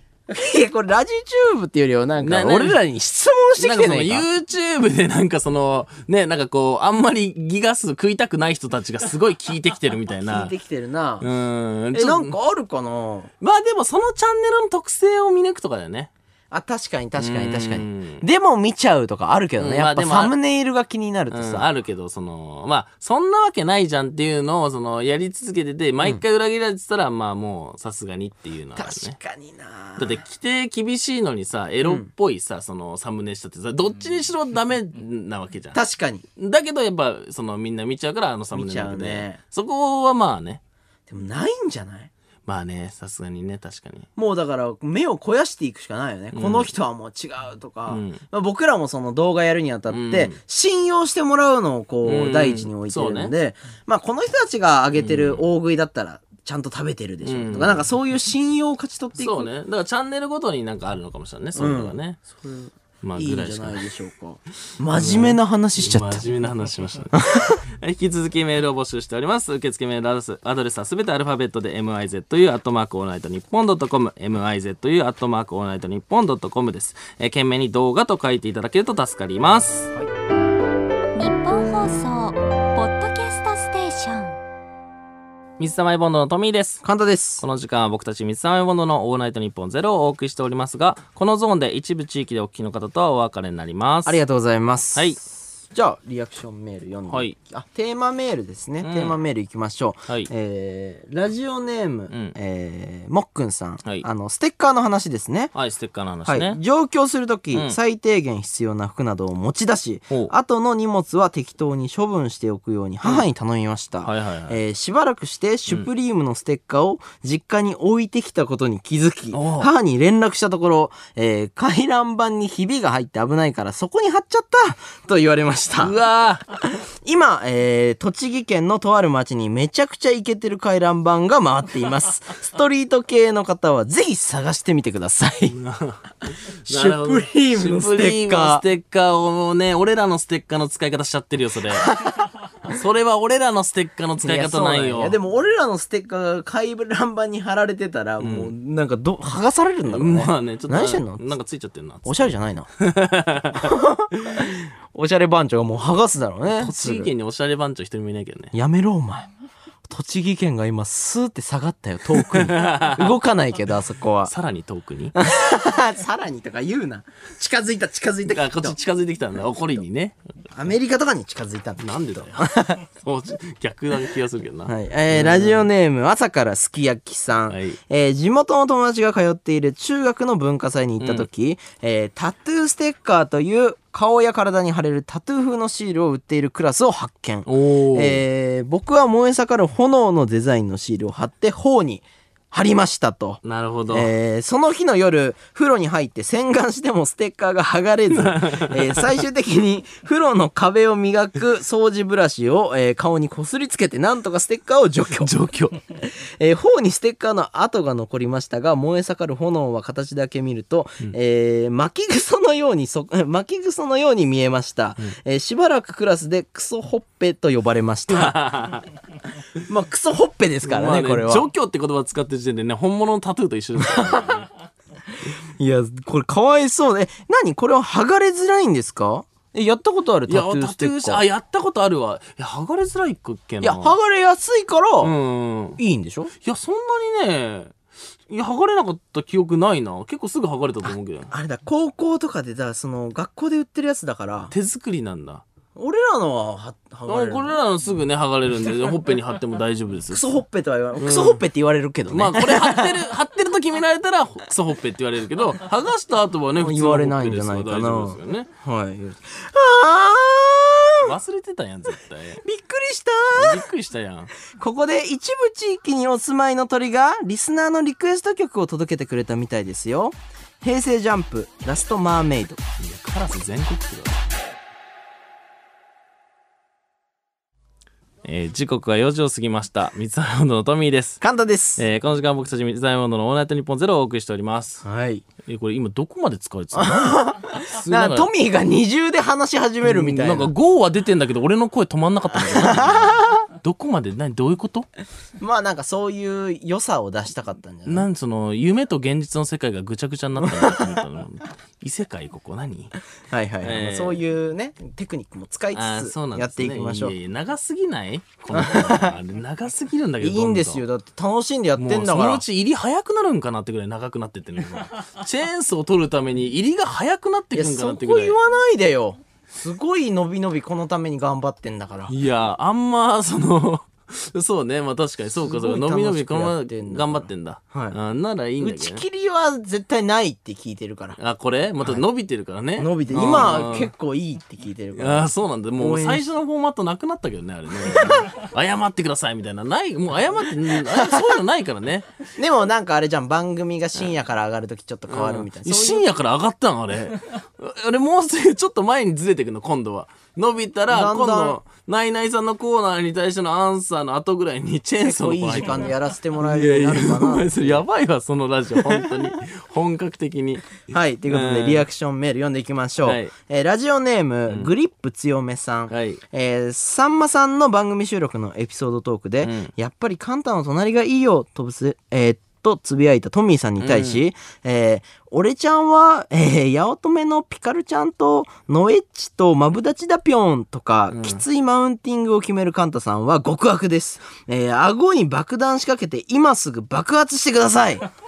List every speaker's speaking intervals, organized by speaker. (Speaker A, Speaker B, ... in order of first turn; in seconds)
Speaker A: 0.3-4.2, 10.2-11.3, 11.9-13.3, 16.5-21.7, 28.8-30.2, 35.7-36.2, 38.5-39.4, 41.1-42.1, 44.1-59.5, 61.5-66.2, 67.2-67.6, 86.8-87.4, 94.0-105.5, 106.2-126.0, 126.6-135.6, 136.7-138.6, 144.2-151.2, 152.0-152.7, 153.5-157.1, 158.5-159.3, 159.8-164.3, 165.2-168.8, 170.5-172.8, 174.7-205.3, 205.9-218.3, 219.7-221.5, 223.8-224.4, 225.6-231.2, 233.6-235.1, 235.8-236.3, 241.3-244.5, 245.8-247.5, 250.1-253.0, 256.6-261.1, 262.4-263.6, 264.5-272.6, 281.2-281.8, 284.8-285.2, 286.7-290.5, 292.4-293.4, 295.4-298.1, 300.4-301.0, 303.3-307.1, 308.5-309.1, 310.2-312.4, 317.5-322.1, 325.4-328.0, 328.6-331.2, 332.8-336.2, 337.8-338.3, 340.9-341.3, 342.4-346.1, 350.9-351.6, 355.0-357.8, 358.8-359.3, 360.9-388.1
Speaker B: 2.2-2.8, 3.6-10.5, 11.2-12.3, 13.4-16.1, 17.2-18.2, 19.6-20.3, 21.3-29.1, 30.0-35.8, 36.4-40.6, 42.5-44.1, 46.3-46.7, 47.9-48.2, 49.9-50.4, 52.0-53.3, 54.9-55.4, 57.2-57.9, 59.1-62.2, 63.0-63.8, 64.9-79.9, 85.6-86.8, 87.4-94.2, 94.9-95.2, 97.1-97.3, 98.8-99.1, 102.1-102.3, 105.5-106.6, 114.0-114.6, 119.3-119.7, 125.8-126.4, 135.5-142.0, 142.6-145.2, 148.2-148.5, 149.9-154.5, 156.5-158.5, 162.2-163.2, 164.2-165.2, 168.3-170.2, 171.8-172.5, 173.0-175.7, 177.5-177.8, 181.0-181.3, 187.4-188.2, 193.4-194.1, 198.1-199.0, 205.2-205.8, 218.1-218.9, 220.6-224.5, 230.3-233.9, 235.0-235.8, 236.4-237.8, 238.3-241.3, 244.5-245.4, 247.1-250.3, 251.0-251.4, 252.1-258.5, 261.0-262.4, 263.3-264.3, 272.8-274.2, 278.2-281.2, 281.8-284.8, 285.4-288.3, 289.8-294.9, 297.9-302.9, 303.6-304.2, 305.7-310.8, 311.8-318.4, 322.1-329.0, 331.2-333.9, 334.9-342.1, 345.1-361.9, 363.0-363.3, 365.9-366.2, 369.4-369.7, 373.8-374.2, 381.1-381.4
Speaker C: 81.1-84.4